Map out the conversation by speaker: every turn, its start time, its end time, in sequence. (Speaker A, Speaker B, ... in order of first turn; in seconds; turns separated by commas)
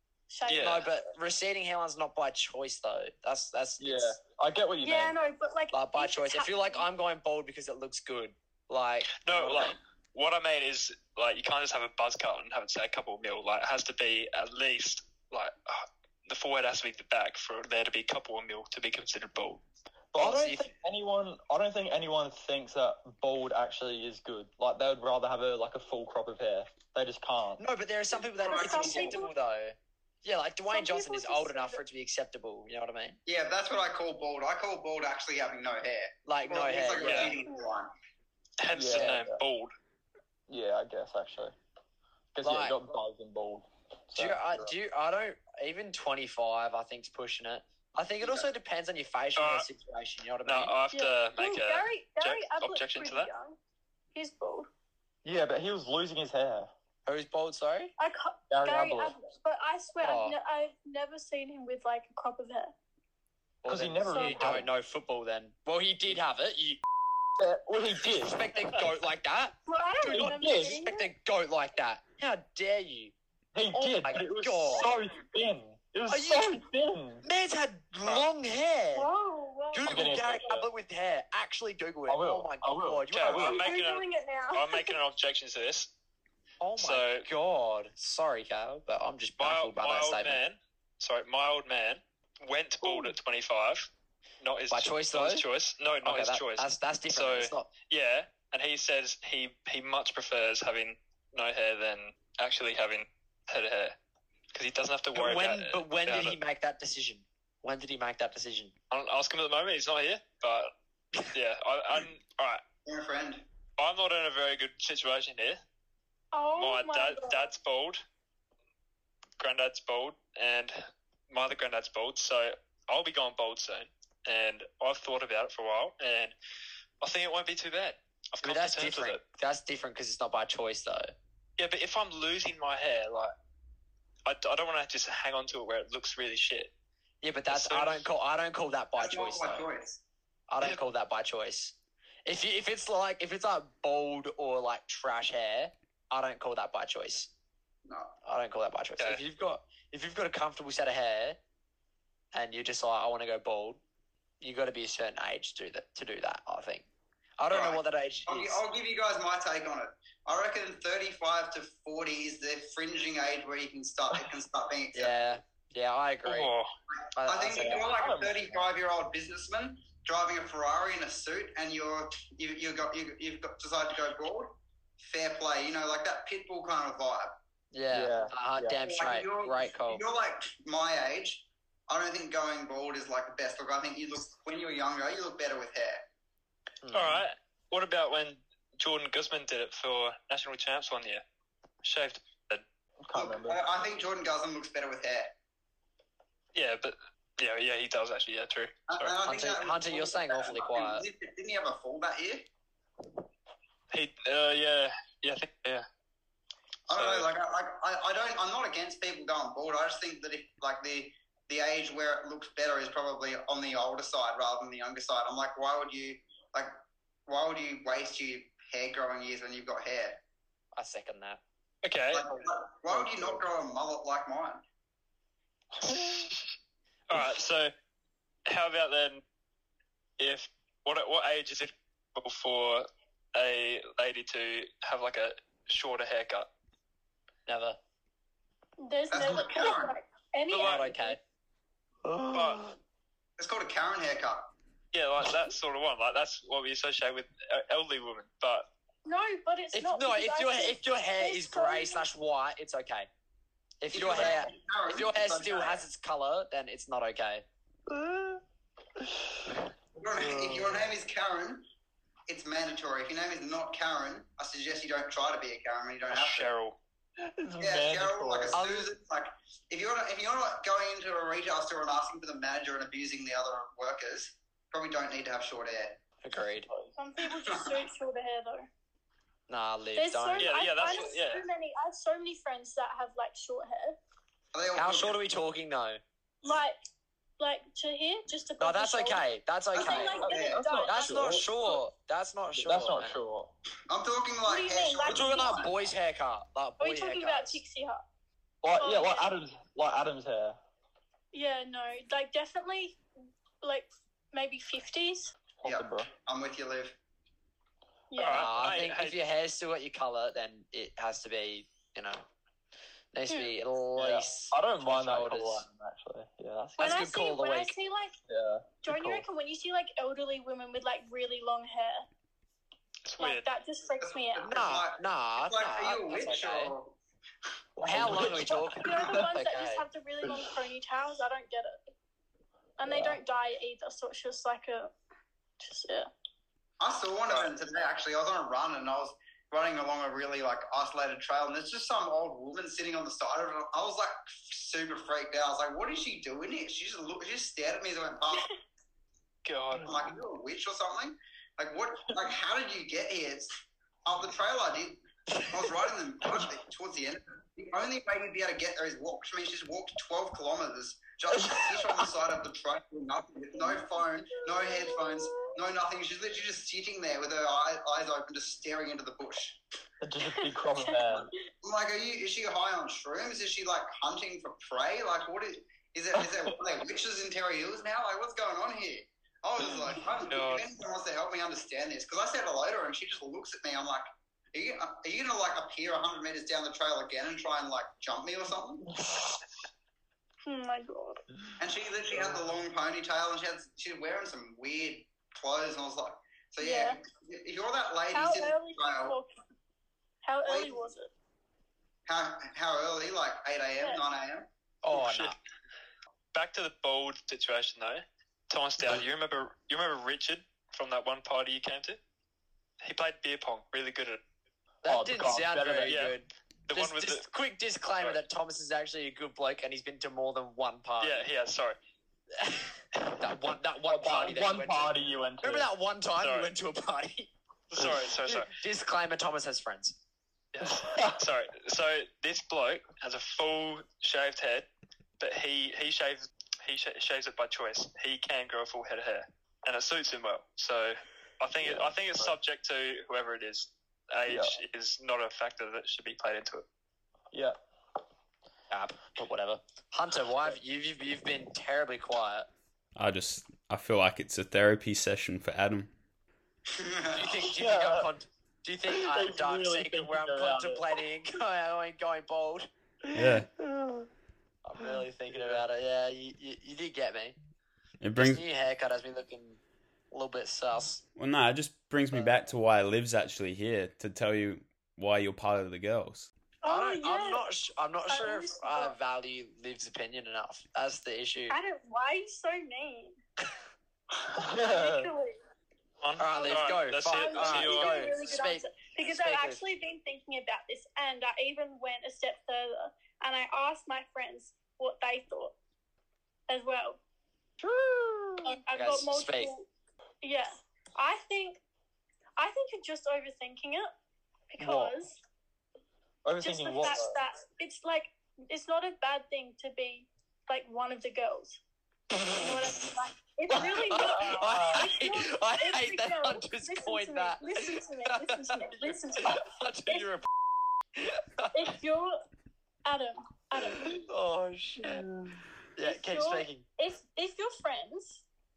Speaker A: 0.3-0.9, Speaker B: 0.5-0.9, Speaker C: 0.5-4.2, Speaker D: 3.8-5.2, Speaker A: 4.8-6.9, Speaker C: 5.7-9.8, Speaker B: 9.2-19.6, Speaker D: 20.1-27.6, Speaker C: 20.2-20.7, Speaker C: 27.6-33.2, Speaker A: 28.4-29.3, Speaker E: 28.4-29.2, Speaker A: 30.7-31.8, Speaker E: 33.3-37.9, Speaker C: 36.2-37.4, Speaker B: 37.0-37.4, Speaker B: 38.6-39.7, Speaker D: 38.7-39.4, Speaker D: 40.5-41.6, Speaker D: 42.3-44.4, Speaker C: 42.4-42.8, Speaker C: 44.1-50.8, Speaker E: 48.2-48.5, Speaker B: 49.4-49.7, Speaker B: 50.5-53.3, Speaker A: 50.9-53.6, Speaker A: 54.1-54.7, Speaker D: 55.2-56.7, Speaker C: 57.1-57.9, Speaker A: 58.0-62.7, Speaker D: 58.5-59.1, Speaker C: 60.0-60.4, Speaker C: 63.6-66.8, Speaker D: 63.6-64.7, Speaker A: 64.1-64.6, Speaker D: 67.4-68.5, Speaker C: 68.2-73.1, Speaker A: 69.7-71.1, Speaker D: 70.1-70.8, Speaker D: 73.5-77.2, Speaker C: 73.7-74.9, Speaker C: 76.1-76.6, Speaker C: 77.2-79.1, Speaker A: 78.9-80.6, Speaker C: 79.7-83.7, Speaker D: 79.9-80.7, Speaker D: 82.1-83.6, Speaker B: 83.1-85.9, Speaker A: 83.4-85.0, Speaker C: 86.6-90.4, Speaker B: 86.8-87.3, Speaker B: 89.4-93.9, Speaker A: 92.8-93.1, Speaker B: 94.4-104.0, Speaker C: 94.7-95.4, Speaker C: 96.0-97.7, Speaker B: 104.5-106.4, Speaker C: 105.1-108.7, Speaker B: 108.9-110.7, Speaker B: 111.2-112.6, Speaker E: 112.8-113.5, Speaker B: 113.8-115.6, Speaker A: 116.3-117.5, Speaker B: 116.6-118.0, Speaker B: 119.4-120.8, Speaker B: 121.3-126.3, Speaker B: 127.0-129.2, Speaker C: 128.4-131.1, Speaker B: 131.6-133.3, Speaker B: 134.2-136.7, Speaker C: 137.2-139.7, Speaker B: 137.5-138.1, Speaker E: 139.0-140.0, Speaker C: 140.5-147.3, Speaker E: 147.9-148.1, Speaker C: 148.2-151.4, Speaker C: 152.3-153.8, Speaker C: 154.4-156.9, Speaker C: 157.4-158.6, Speaker E: 157.5-165.4, Speaker C: 164.9-166.5, Speaker B: 166.2-166.7, Speaker C: 167.1-168.0, Speaker E: 167.2-177.4, Speaker D: 167.5-168.7, Speaker C: 177.7-180.0, Speaker D: 177.9-178.8, Speaker E: 178.9-186.1, Speaker C: 186.8-187.2, Speaker B: 186.9-191.2, Speaker B: 191.8-192.6, Speaker D: 193.0-193.6, Speaker E: 193.1-195.3, Speaker B: 196.6-199.1, Speaker E: 198.9-202.5, Speaker C: 199.2-201.1, Speaker B: 203.9-205.8, Speaker E: 206.9-216.8, Speaker B: 206.9-207.3, Speaker E: 217.3-220.2, Speaker C: 220.8-221.4, Speaker B: 221.8-222.3, Speaker E: 222.1-224.6, Speaker D: 222.9-223.4, Speaker D: 225.8-226.3, Speaker B: 225.9-226.3, Speaker B: 227.1-227.7, Speaker B: 228.5-229.2, Speaker B: 230.2-236.5, Speaker C: 237.5-237.8, Speaker A: 238.8-241.2, Speaker E: 239.1-240.0, Speaker B: 240.5-240.9, Speaker C: 240.6-241.2, Speaker D: 242.1-242.7, Speaker B: 242.3-242.6, Speaker E: 243.4-244.5, Speaker B: 244.9-248.7, Speaker A: 249.1-252.1, Speaker C: 249.7-253.1, Speaker C: 253.8-257.4, Speaker E: 253.9-255.8, Speaker D: 257.9-258.4, Speaker D: 259.0-259.4, Speaker E: 260.0-261.6, Speaker D: 260.1-260.9, Speaker E: 262.3-266.5, Speaker B: 266.1-266.8, Speaker D: 267.2-268.6, Speaker E: 267.6-276.0, Speaker C: 268.5-268.9, Speaker C: 276.2-276.7, Speaker A: 277.0-278.7, Speaker E: 277.2-277.8, Speaker C: 279.5-280.5, Speaker A: 279.9-284.0, Speaker B: 280.4-281.4, Speaker E: 284.5-285.2, Speaker C: 284.8-286.0, Speaker A: 286.4-286.8, Speaker A: 287.4-289.3, Speaker C: 288.6-290.2, Speaker E: 289.8-290.6, Speaker A: 289.8-291.4, Speaker D: 290.2-291.8, Speaker C: 290.8-293.2, Speaker D: 292.6-293.5, Speaker E: 293.9-295.7, Speaker A: 294.4-295.7, Speaker C: 295.1-297.6, Speaker A: 296.8-298.0, Speaker D: 298.6-300.6, Speaker A: 298.8-299.4, Speaker A: 301.3-303.0, Speaker A: 303.6-305.3, Speaker D: 305.6-306.1, Speaker E: 305.6-307.0, Speaker A: 308.1-308.5, Speaker B: 308.2-309.2, Speaker C: 308.3-312.2, Speaker C: 313.1-315.7, Speaker D: 314.0-316.9, Speaker A: 316.8-318.1, Speaker C: 316.8-317.7, Speaker D: 318.3-319.2, Speaker A: 318.8-322.1, Speaker B: 323.1-323.5, Speaker A: 323.2-324.5, Speaker E: 324.0-327.0, Speaker C: 324.4-326.7, Speaker C: 327.8-329.8, Speaker D: 327.8-329.3, Speaker A: 328.8-331.8, Speaker D: 330.2-330.5, Speaker A: 332.8-334.9, Speaker D: 332.8-333.2, Speaker A: 335.6-336.1, Speaker E: 336.8-348.5, Speaker B: 349.4-350.0, Speaker E: 349.8-369.6, Speaker D: 361.3-362.1, Speaker A: 364.4-365.6, Speaker D: 370.0-371.3, Speaker A: 370.4-371.2, Speaker E: 371.1-388.9, Speaker D: 376.1-376.6, Speaker D: 379.6-380.0, Speaker B: 380.3-380.7, Speaker D: 388.9-389.4, Speaker A: 390.4-391.2, Speaker E: 391.6-399.2, Speaker D: 392.1-392.5, Speaker A: 396.6-397.0, Speaker A: 398.1-399.4, Speaker A: 400.2-401.1, Speaker E: 400.5-400.8, Speaker E: 402.1-404.5, Speaker C: 404.8-405.4, Speaker B: 404.9-405.4, Speaker B: 406.3-412.0, Speaker B: 412.8-414.2, Speaker C: 414.8-421.3, Speaker D: 414.8-416.0, Speaker B: 415.8-416.1, Speaker B: 416.7-417.3, Speaker B: 421.0-421.8, Speaker C: 422.4-427.3, Speaker D: 423.9-425.7, Speaker B: 426.2-426.5, Speaker B: 427.7-428.5, Speaker C: 428.2-430.0, Speaker B: 430.5-434.7, Speaker B: 435.2-446.6, Speaker D: 441.6-442.4, Speaker D: 444.3-444.5, Speaker C: 448.7-452.5, Speaker F: 453.0-455.9, Speaker E: 456.7-457.4, Speaker C: 457.1-462.7, Speaker D: 457.4-458.1, Speaker D: 458.9-461.0, Speaker F: 463.1-463.5, Speaker D: 463.1-464.1, Speaker C: 464.6-467.4, Speaker D: 464.8-465.6, Speaker F: 468.0-468.4, Speaker C: 468.1-471.0, Speaker F: 471.1-476.3, Speaker A: 476.6-477.5, Speaker C: 476.6-481.6, Speaker A: 478.1-479.0, Speaker A: 481.5-483.2, Speaker D: 484.2-485.1, Speaker A: 484.4-485.4, Speaker B: 486.0-488.2, Speaker C: 486.2-489.6, Speaker A: 486.4-495.6, Speaker A: 496.5-497.0, Speaker D: 497.6-498.6, Speaker A: 498.4-499.7, Speaker C: 498.7-499.5, Speaker A: 500.2-501.6, Speaker A: 502.4-503.9, Speaker A: 504.5-505.2, Speaker D: 504.6-505.0, Speaker D: 506.2-507.2, Speaker A: 506.4-511.6, Speaker A: 512.3-520.0, Speaker C: 513.5-520.3, Speaker D: 514.0-514.9, Speaker C: 521.0-521.7, Speaker A: 521.5-522.2, Speaker A: 522.8-524.0, Speaker C: 523.9-525.0, Speaker D: 524.8-525.4, Speaker C: 525.8-526.6, Speaker A: 525.8-528.2